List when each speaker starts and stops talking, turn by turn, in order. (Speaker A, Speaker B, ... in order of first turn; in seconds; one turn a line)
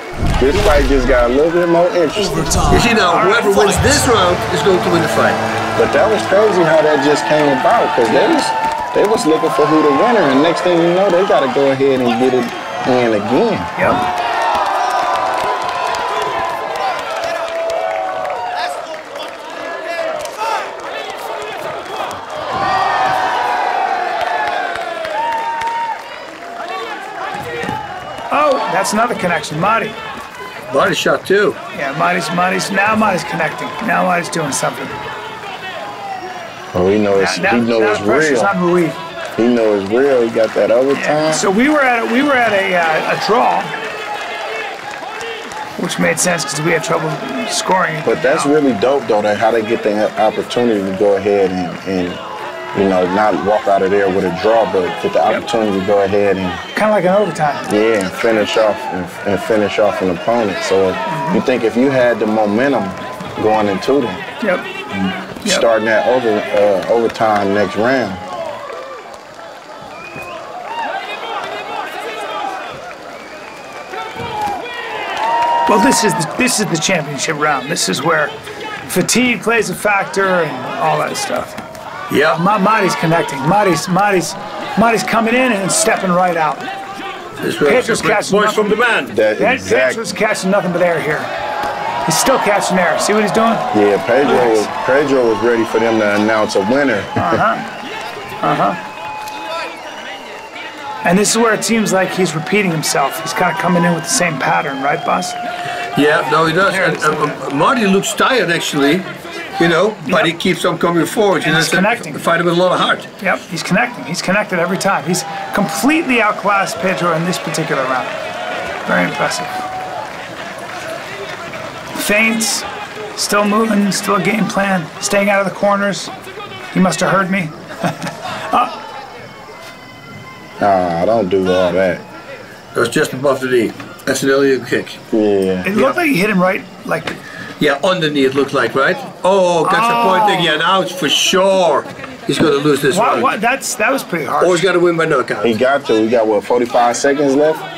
Speaker A: 0.4-2.7
Speaker B: 2.7-5.4
Speaker C: 3.0-4.0
Speaker A: 5.8-13.7
Speaker B: 8.1-8.4
Speaker C: 13.8-14.0
Speaker C: 28.3-30.0
Speaker B: 30.7-31.6
Speaker C: 31.7-35.0
Speaker A: 36.7-38.5
Speaker C: 37.1-39.0
Speaker A: 39.4-41.5
Speaker C: 40.9-43.7
Speaker C: 45.8-48.5
Speaker A: 48.0-52.2
Speaker A: 52.7-56.6
Speaker C: 56.7-57.7
Speaker A: 57.7-64.2
Speaker C: 61.1-61.4
Speaker A: 64.9-68.2
Speaker C: 75.7-78.3
Speaker C: 78.9-81.6
Speaker B: 82.1-82.4
Speaker C: 82.3-86.6
Speaker B: 87.4-89.2
Speaker C: 87.7-88.7
Speaker A: 89.1-90.2
Speaker C: 89.4-91.3
Speaker C: 92.0-93.7
Speaker A: 93.7-97.4
Speaker C: 94.2-94.7
Speaker C: 97.2-97.7
Speaker C: 98.4-98.8
Speaker C: 101.0-105.4
Speaker B: 106.0-113.1
Speaker C: 106.7-107.4
Speaker C: 110.0-110.3
Speaker C: 111.4-112.3
Speaker C: 113.2-118.1
Speaker C: 118.8-119.6
Speaker C: 121.9-126.1
Speaker C: 126.7-128.7
Speaker A: 130.6-132.0
Speaker B: 132.8-135.0
Speaker A: 135.1-136.0
Speaker C: 135.7-137.2
Speaker B: 137.6-143.3
Speaker C: 139.6-140.6
Speaker C: 142.9-144.7
Speaker B: 144.4-145.6
Speaker A: 145.4-147.7